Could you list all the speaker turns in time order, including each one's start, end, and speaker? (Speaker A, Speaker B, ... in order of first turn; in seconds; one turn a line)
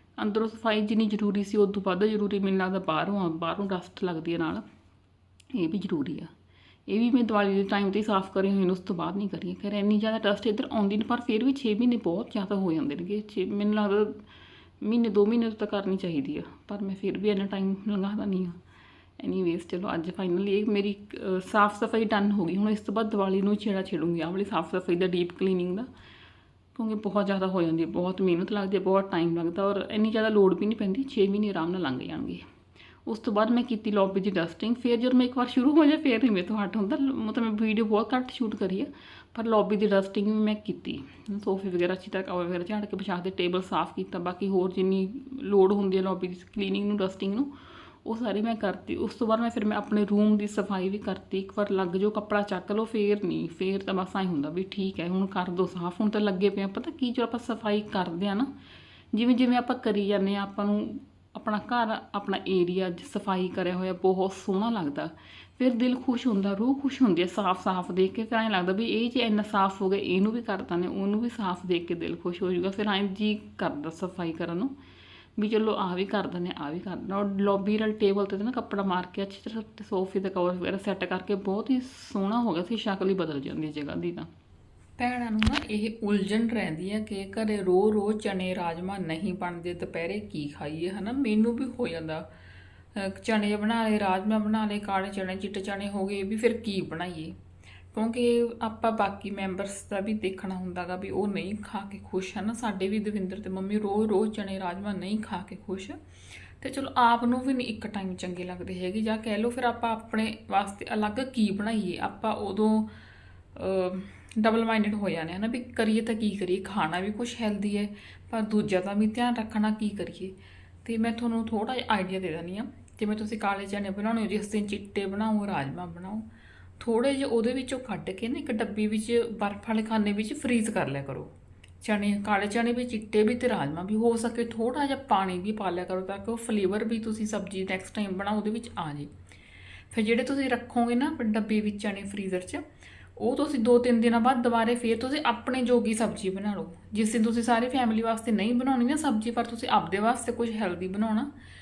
Speaker A: 0.2-4.6
Speaker A: 5.5-6.3
Speaker A: 6.9-14.2
Speaker A: 14.8-18.6
Speaker A: 19.2-25.9
Speaker A: 26.8-32.5
Speaker A: 33.1-47.5
Speaker A: 48.0-58.5
Speaker A: 59.1-74.7
Speaker A: 75.4-84.3
Speaker A: 85.0-92.3
Speaker A: 92.9-97.4
Speaker A: 97.9-106.0
Speaker A: 106.6-112.9
Speaker A: 113.5-126.2
Speaker A: 126.8-139.1
Speaker A: 139.9-142.6
Speaker A: 143.2-151.3